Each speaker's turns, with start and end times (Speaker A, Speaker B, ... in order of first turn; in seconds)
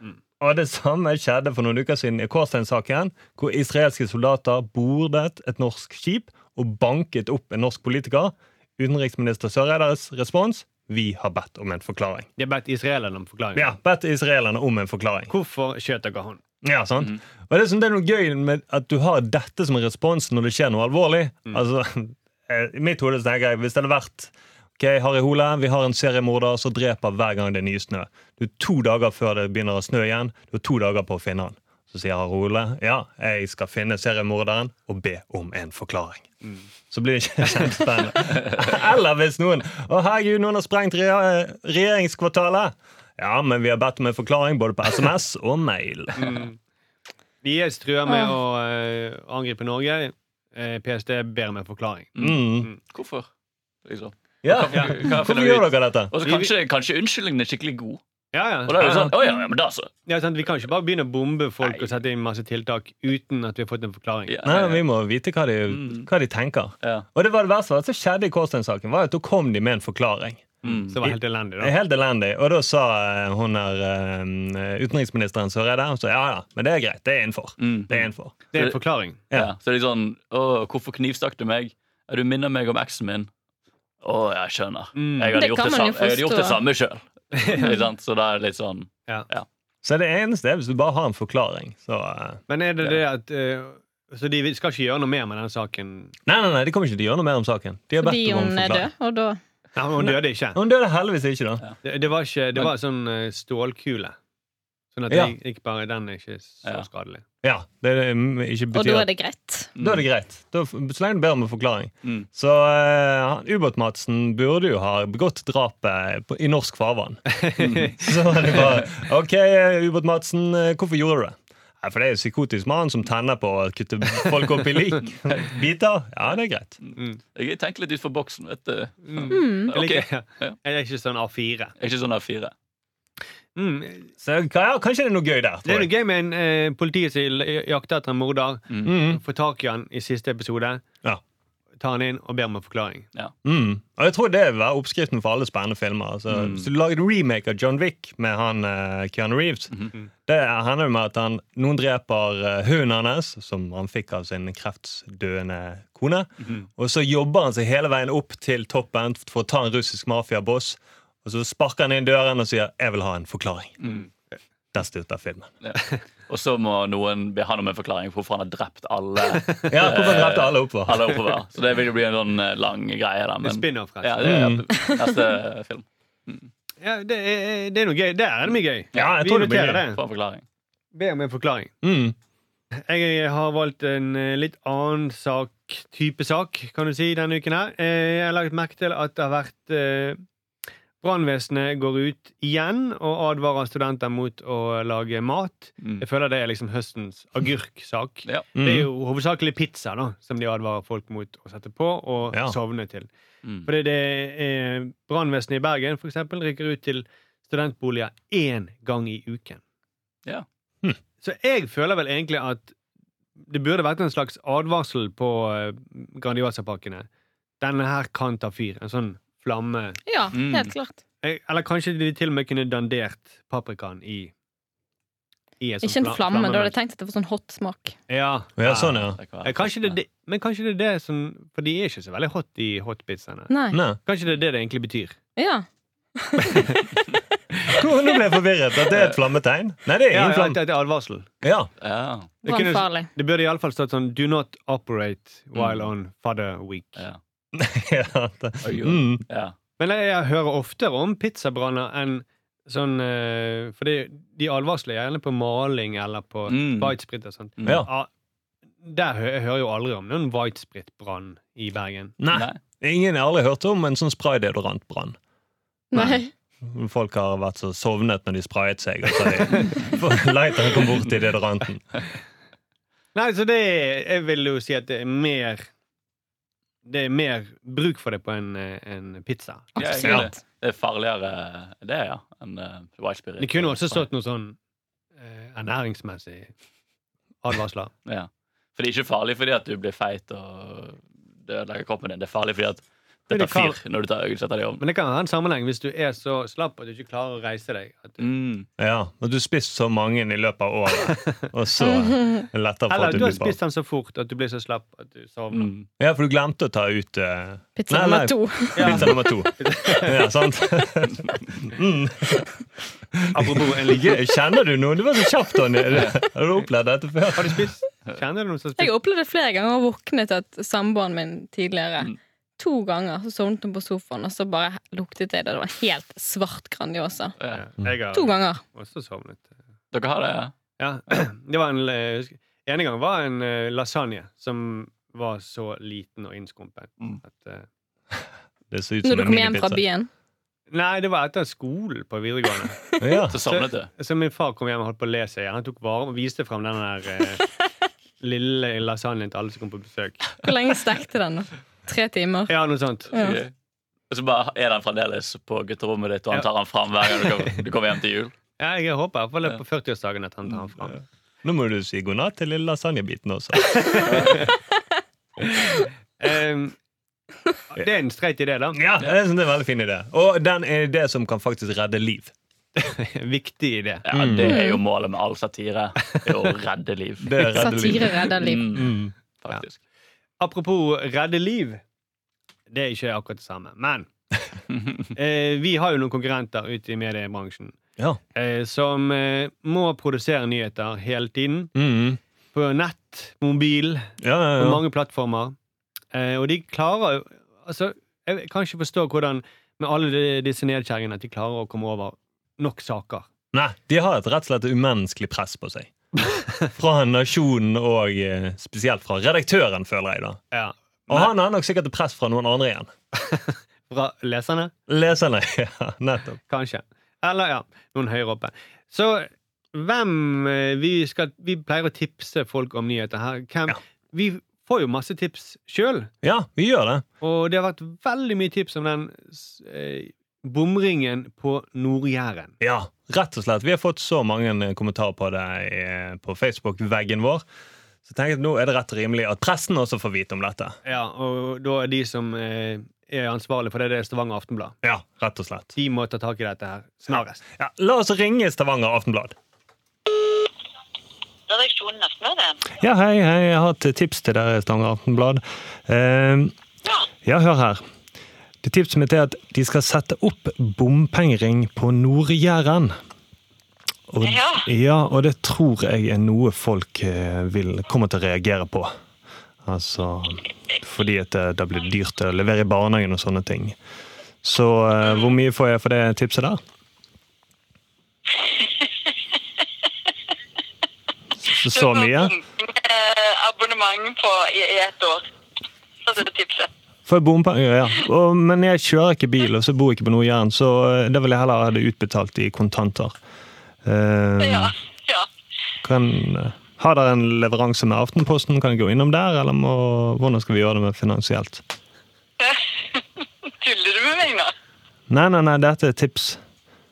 Speaker A: 0.4-12.3, 13.5-15.3, 16.6-36.3, 36.9-46.4, 52.2-52.7, 54.4-56.1, 58.8-59.1, 64.4-78.3, 89.8-92.4, 96.2-98.9, 100.0-101.6, 105.1-105.3, 107.4-109.1, 109.8-117.2, 118.0-126.8, 134.2-135.9, 138.8-139.2, 143.4-149.7, 150.2-163.7, 164.7-165.5, 169.7-171.2, 174.2-174.6, 178.9-179.8, 181.8-182.1, 198.5-198.9, 228.6-229.2, 233.7-234.0, 237.7-240.6, 241.4-241.7, 247.5-249.2, 262.2-265.2, 265.9-271.8, 280.0-280.3, 298.8-303.6, 306.0-312.5, 313.1-317.7, 338.7-339.8, 343.0-343.4, 361.4-364.3, 368.7-372.3, 374.1-374.6, 377.2-379.1, 391.7-392.2, 394.2-394.8, 403.5-405.9, 406.7-410.4, 411.1-412.9, 414.9-416.4, 426.2-427.0, 432.6-437.4, 438.1-440.8, 444.8-445.7, 447.6-449.3, 452.8-456.5, 457.2-457.8, 458.6-462.9, 464.1-468.9, 469.6-473.8, 474.4-476.6, 481.4-482.4, 487.1-493.1, 493.8-494.7, 495.8-501.6, 505.1-506.4
Speaker B: 12.4-13.7, 15.3-16.4, 46.1-46.6, 47.4-52.8, 54.7-55.1, 56.2-56.5, 58.3-58.9, 60.1-64.3, 70.6-71.7, 78.5-79.2, 84.9-85.3, 87.3-87.7, 92.5-96.1, 99.7-100.6, 101.8-104.2, 104.9-107.2, 117.4-117.9, 129.0-131.7, 133.6-134.1, 135.7-140.8, 141.8-143.1, 173.4-174.5, 176.8-180.0, 180.9-181.7, 182.8-190.2, 191.0-203.1, 203.7-209.6, 211.2-212.7, 213.5-217.1, 217.6-220.0, 221.2-224.3, 225.6-226.7, 228.1-235.2, 237.5-237.8, 240.1-241.3, 242.4-247.0, 249.8-258.1, 258.8-262.1, 273.1-275.7, 276.8-279.8, 283.4-284.6, 285.2-286.5, 287.4-287.9, 293.3-293.8, 294.8-298.2, 301.0-301.3, 302.9-305.7, 308.8-310.2, 313.3-314.2, 317.3-318.9, 327.5-329.5, 330.8-337.6, 340.7-347.4, 348.2-350.4, 352.5-353.1, 358.6-361.0, 363.6-364.5, 365.4-366.7, 367.7-368.8, 372.8-374.1, 380.4-381.8, 382.7-384.1, 385.1-387.8, 388.3-391.7, 392.5-395.6, 396.1-403.3, 410.5-411.3, 413.1-414.7, 416.5-426.1, 427.2-432.5, 440.8-444.7, 445.7-447.4
Speaker C: 48.1-48.3, 85.3-86.6, 98.0-99.4, 108.7-109.7, 129.3-129.7, 220.1-221.0, 225.8-227.9, 233.5-233.8, 235.3-235.6, 236.2-236.8, 242.4-243.1, 265.9-266.3, 301.8-302.4, 307.8-309.5, 318.8-327.3, 328.1-328.6, 339.0-340.1, 350.4-352.5, 353.1-353.4, 374.4-374.8, 377.5-378.7
Speaker D: 52.1-53.2, 53.8-58.0, 58.6-59.9, 61.6-61.9, 64.3-64.8, 65.7-66.1, 70.6-71.0, 77.6-78.8, 79.3-83.3, 84.0-89.5, 109.8-110.0, 117.6-118.9, 126.8-130.6, 131.8-132.5, 138.7-138.9, 146.3-146.7, 163.8-164.1, 165.6-176.5, 179.9-180.4, 195.8-196.1, 203.4-203.7, 220.3-220.7, 229.2-230.0, 238.9-239.2, 241.8-242.3, 245.5-245.9, 248.6-249.5, 256.5-256.9, 257.6-257.9, 262.3-262.6, 279.8-284.1, 288.1-294.8, 298.2-298.7, 303.1-303.4, 305.5-305.8, 315.9-316.1, 329.9-330.5, 343.3-343.9, 353.1-353.5, 354.1-358.3, 374.0-377.7, 378.3-379.8, 384.7-385.1
Speaker E: 451.5-452.6, 464.2-464.6, 478.3-479.1, 481.7-485.2, 486.0-486.7, 494.4-495.3, 502.4-504.5